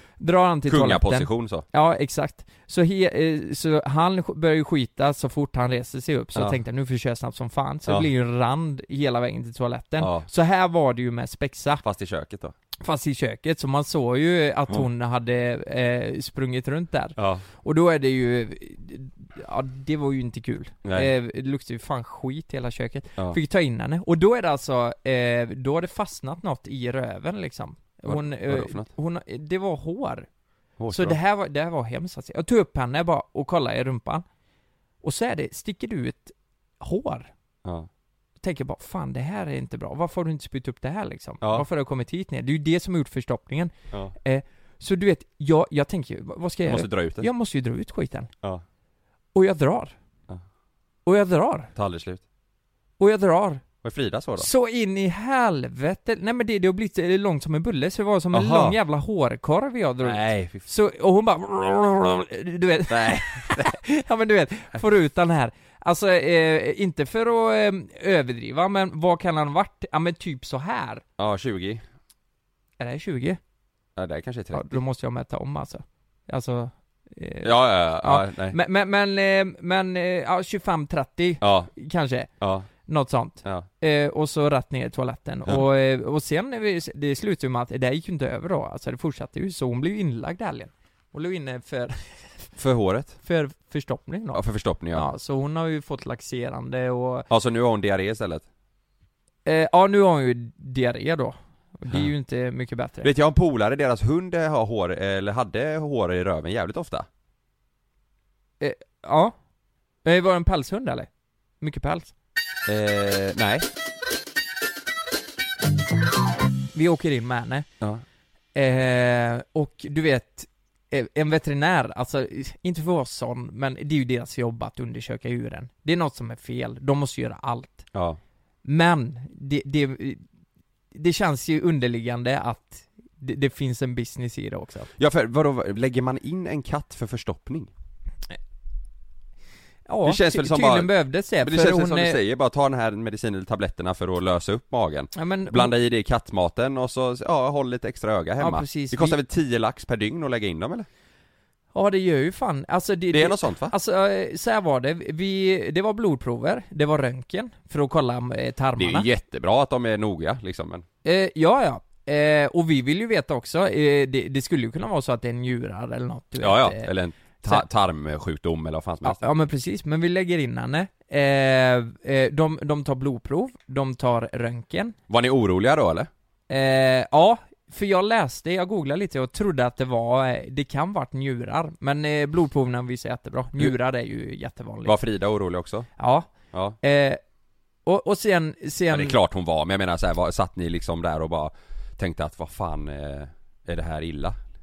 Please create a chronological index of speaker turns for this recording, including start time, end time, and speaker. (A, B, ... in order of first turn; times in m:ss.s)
0:00.2-0:11.8 A
0:00.7-0:01.6 B
0:10.0-0:10.2 B
0:11.8-0:12.5 B
0:12.8-0:30.3 A
0:17.2-0:17.4 B
0:20.8-0:21.1 B
0:28.0-0:28.9 B
0:30.8-0:31.2 B
0:30.9-0:34.2 A
0:35.0-0:37.3 A
0:38.4-0:48.3 A
0:41.4-0:41.6 B
0:46.6-0:47.3 B
0:49.3-0:50.0 A
0:51.0-0:51.7 A
0:51.7-0:52.2 B
0:53.0-0:53.6 A
0:53.8-0:54.5 B
0:54.4-1:11.0 A
0:58.3-0:58.8 B
1:00.0-1:00.6 B
1:02.9-1:03.8 B
1:11.2-1:11.8 B
1:12.8-1:13.4 A
1:14.0-1:14.8 B
1:14.5-1:22.3 A
1:17.4-1:18.6 B
1:21.4-1:21.7 B
1:22.4-1:22.7 B
1:22.8-1:32.5 A
1:32.6-1:33.2 B
1:33.2-1:37.2 A
1:34.3-1:35.1 B
1:37.3-1:38.4 B
1:39.4-1:43.1 A
1:43.0-1:47.1 B
1:48.6-1:49.3 A
1:50.0-1:51.1 A
1:51.6-1:52.1 A
1:52.6-1:53.6 B
1:56.7-1:57.7 A
1:58.5-2:07.9 A
2:07.9-2:08.2 B
2:08.6-2:10.2 A
2:10.9-2:14.9 A
2:15.0-2:17.7 B
2:19.9-2:22.2 A
2:20.0-2:30.9 B
2:25.1-2:25.7 A
2:28.4-2:29.2 A
2:31.7-2:39.1 A
2:33.1-2:33.7 B
2:38.8-2:40.8 B
2:41.0-2:47.6 A
2:46.4-2:49.2 B
2:49.0-2:55.0 A
2:55.1-2:56.1 B
2:56.5-3:05.0 A
3:04.8-3:05.9 B
3:06.0-3:06.3 A
3:06.8-3:07.2 A
3:07.8-3:09.2 A
3:08.9-3:14.4 B